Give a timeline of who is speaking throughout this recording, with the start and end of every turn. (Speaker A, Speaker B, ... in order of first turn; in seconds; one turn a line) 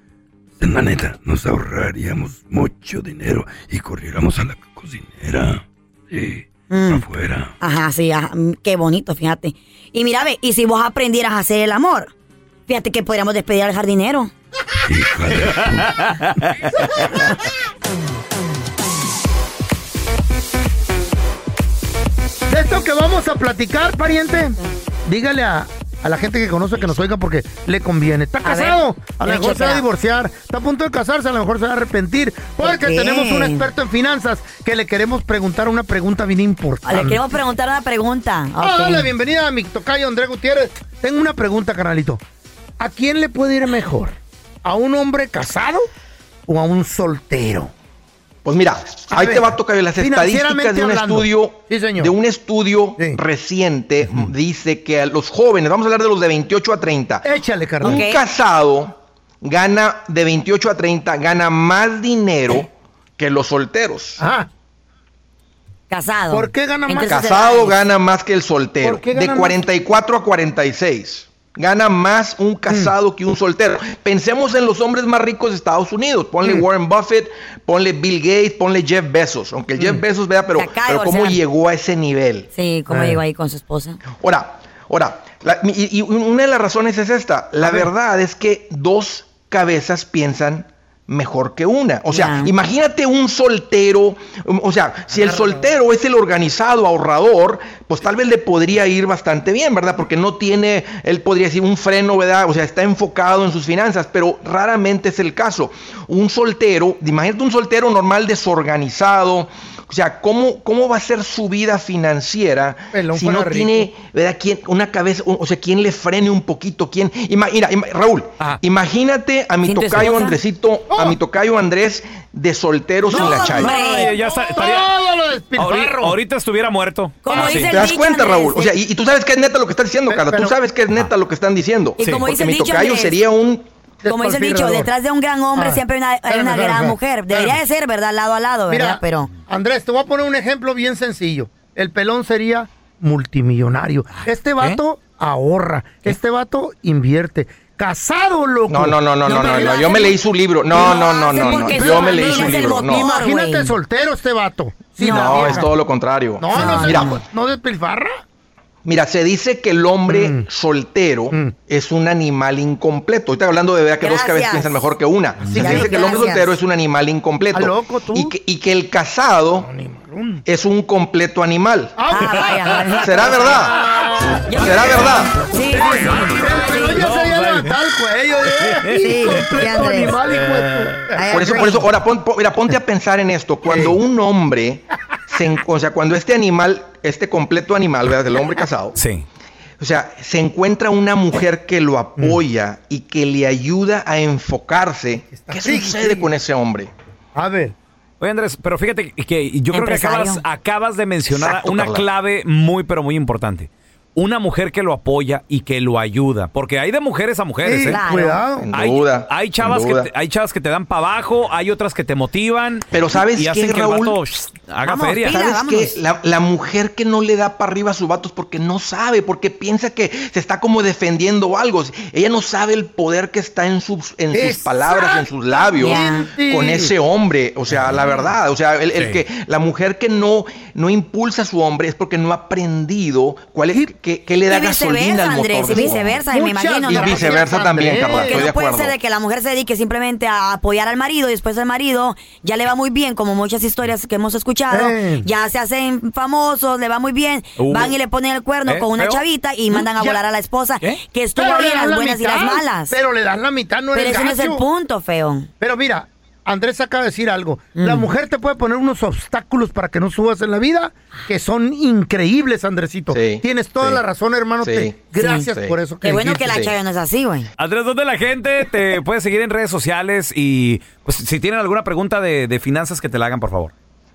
Speaker A: 0.6-7.5
Speaker B: 6.7-7.1
Speaker B: 7.6-12.1
Speaker B: 12.7-14.3
Speaker A: 14.8-15.9
Speaker C: 15.3-17.3
Speaker D: 22.5-37.2
Speaker B: 28.4-29.8
Speaker B: 32.6-33.7
Speaker B: 36.8-39.1
Speaker D: 38.6-42.2
Speaker D: 42.8-45.9
Speaker D: 46.5-47.7
Speaker E: 48.4-57.3
Speaker D: 49.1-52.1
Speaker D: 57.2-58.0
Speaker E: 57.8-64.2
Speaker B: 57.8-58.2
Speaker D: 64.2-64.5
Speaker B: 65.9-67.8
Speaker D: 66.3-67.4
Speaker E: 67.1-82.5
Speaker D: 68.8-69.6
Speaker D: 72.7-72.9
Speaker D: 79.8-80.0
Speaker B: 80.5-81.4
Speaker B: 82.5-84.0
Speaker D: 82.9-83.2
Speaker E: 84.2-123.8
Speaker D: 87.6-87.9
Speaker B: 92.1-92.5
Speaker D: 112.9-113.9
Speaker B: 119.6-120.4
Speaker D: 120.9-121.2
Speaker B: 123.1-124.1
Speaker D: 123.1-126.2
Speaker C: 123.7-124.9
Speaker C: 125.6-127.8
Speaker B: 127.2-128.7
Speaker E: 127.3-133.7
Speaker D: 130.1-130.6
Speaker B: 132.0-133.2
Speaker D: 134.0-134.9
Speaker B: 134.1-139.3
Speaker D: 135.6-137.6
Speaker D: 138.7-149.9
Speaker C: 144.2-144.8
Speaker E: 148.7-153.1
Speaker B: 149.3-150.2
Speaker B: 150.7-153.7
Speaker D: 150.8-155.7
Speaker B: 155.0-155.7
Speaker E: 155.0-157.2
Speaker D: 156.4-158.2
Speaker B: 156.5-157.2
Speaker E: 158.8-169.7
Speaker D: 160.1-160.5
Speaker D: 161.3-161.6
Speaker B: 164.0-164.8
Speaker D: 165.4-166.3
Speaker B: 165.5-166.5
Speaker D: 167.5-168.3
Speaker D: 169.7-170.4
Speaker E: 170.4-171.9
Speaker D: 171.9-175.1
Speaker B: 172.1-173.6
Speaker E: 173.0-173.8
Speaker B: 174.4-177.1
Speaker E: 174.6-175.3
Speaker D: 175.7-181.8
Speaker C: 175.9-177.8
Speaker C: 178.7-179.7
Speaker B: 179.0-180.2
Speaker C: 180.3-181.1
Speaker B: 181.1-181.8
Speaker E: 181.3-188.9
Speaker D: 183.7-184.0
Speaker C: 188.9-189.3
Speaker E: 189.8-196.9
Speaker D: 195.3-196.3
Speaker D: 197.3-197.7
Speaker C: 198.2-208.0
Speaker B: 199.7-200.4
Speaker E: 201.3-202.1
Speaker D: 207.6-208.7
Speaker B: 207.8-208.4
Speaker E: 208.7-210.1
Speaker C: 208.7-215.4
Speaker E: 212.9-214.2
Speaker B: 214.8-216.0
Speaker E: 215.3-236.2
Speaker D: 224.3-226.9
Speaker B: 225.8-226.3
Speaker C: 228.9-229.2
Speaker B: 234.5-237.4
Speaker D: 235.6-238.4
Speaker E: 236.9-238.9
Speaker B: 238.0-253.0
Speaker D: 244.7-245.3
Speaker C: 247.6-247.9
Speaker C: 248.7-249.2
Speaker D: 249.7-250.2
Speaker D: 251.3-254.7
Speaker B: 253.9-255.5
Speaker D: 255.6-266.6
Speaker B: 257.8-258.1
Speaker E: 263.1-264.0
Speaker E: 264.6-265.8
Speaker B: 265.2-265.4
Speaker B: 266.0-267.5
Speaker E: 266.4-266.8
Speaker C: 267.6-273.7